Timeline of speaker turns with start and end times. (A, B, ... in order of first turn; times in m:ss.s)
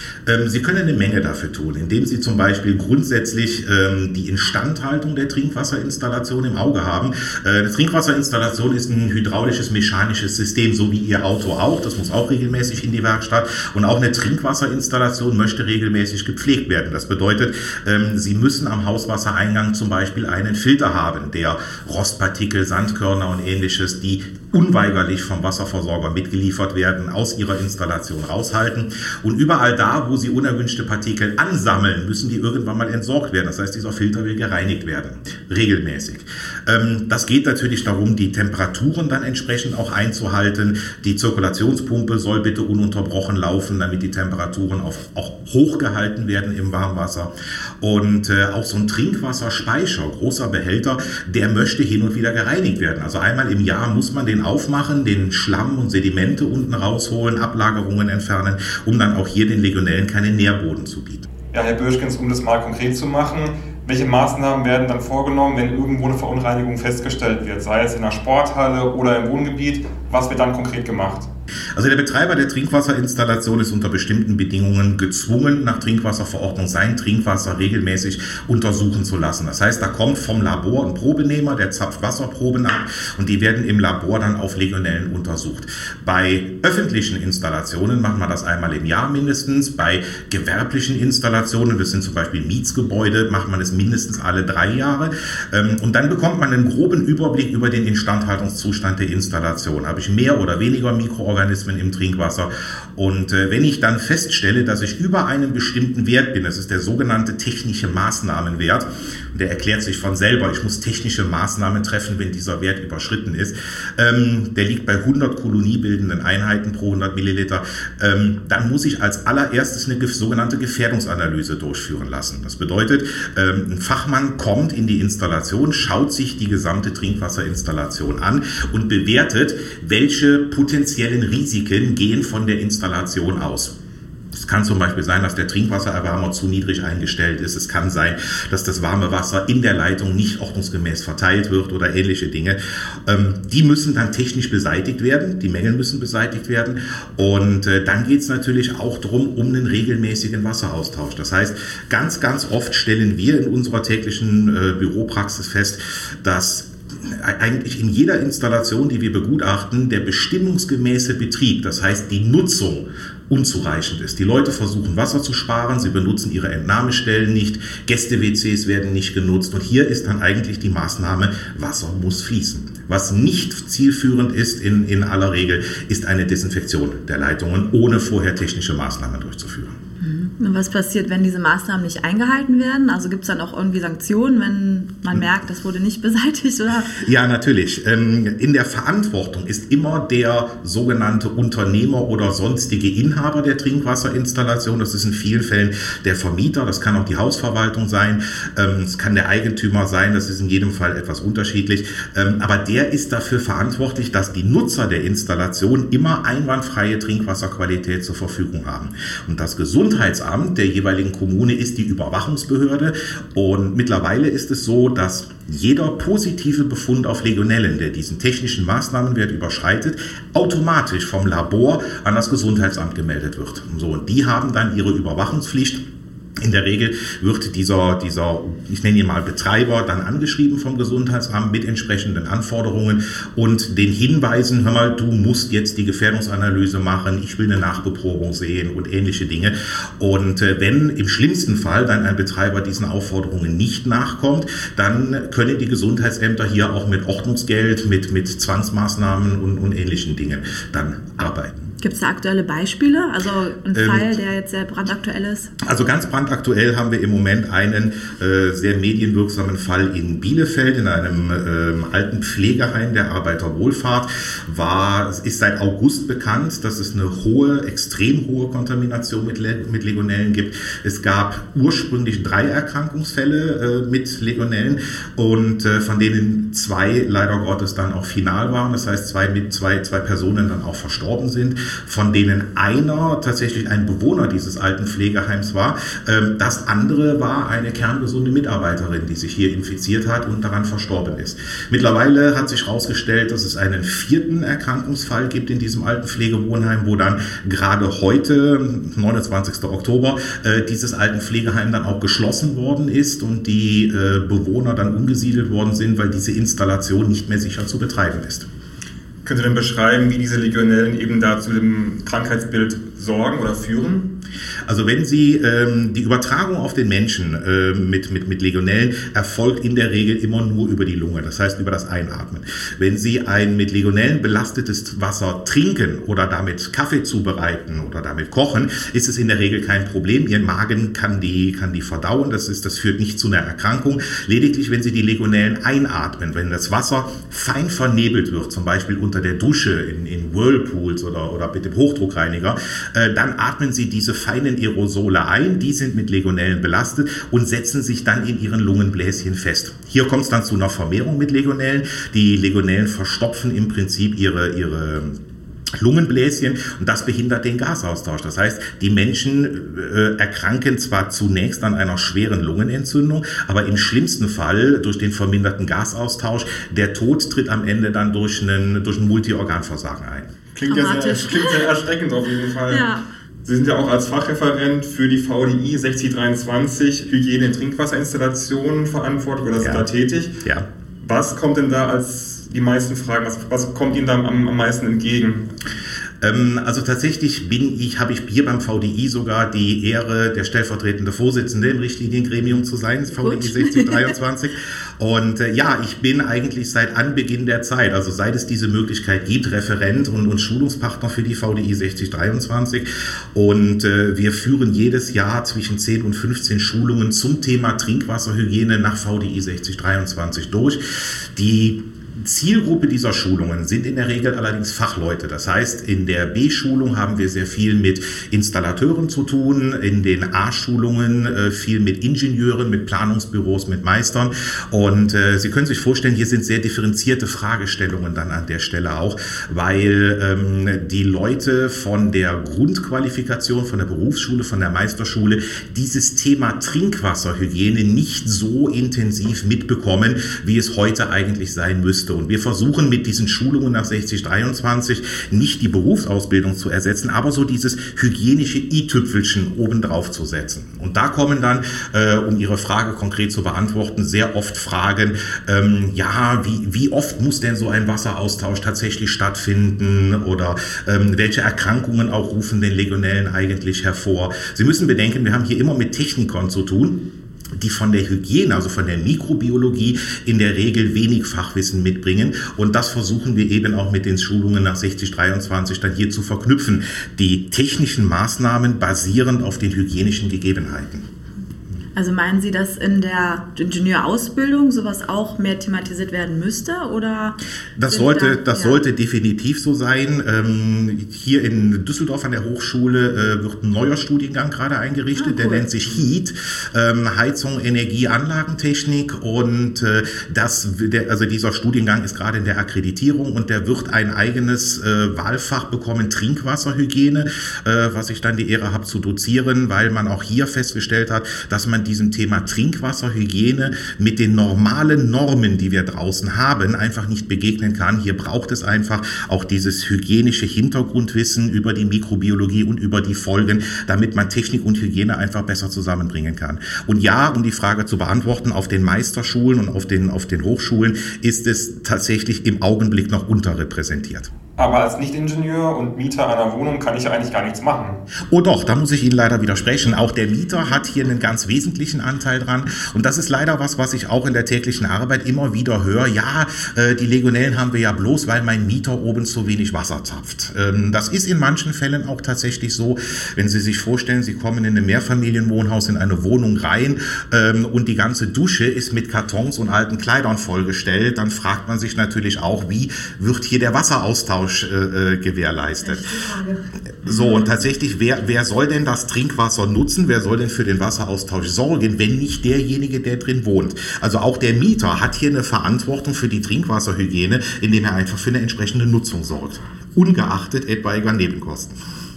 0:00.3-1:01.3 A
1:01.5-1:11.3 B
1:11.8-2:13.8 A
2:14.3-2:59.7 A
3:00.0-3:07.0 C
3:07.0-3:45.8 A
3:46.4-4:11.7 A
4:11.8-4:15.5 C
4:13.7-4:14.1 A
4:15.6-5:08.5 A
5:09.2-5:14.2 B
5:14.7-5:55.2 A
5:55.8-6:10.3 A
6:10.6-6:12.9 B
6:10.7-6:11.7 C
6:12.7-6:13.0 C
6:13.4-6:20.4 B
6:19.6-6:19.9 A
6:21.0-6:25.5 B
6:26.2-6:50.8 A
6:33.2-6:34.1 C
6:51.4-7:47.0 A
7:47.6-8:01.0 A
8:02.0-8:08.8 C
8:07.8-8:54.3 A
8:15.2-8:15.7 C
8:54.6-8:58.0 B
8:58.3-9:26.2 A
9:25.8-9:26.7 C
9:26.9-9:41.7 A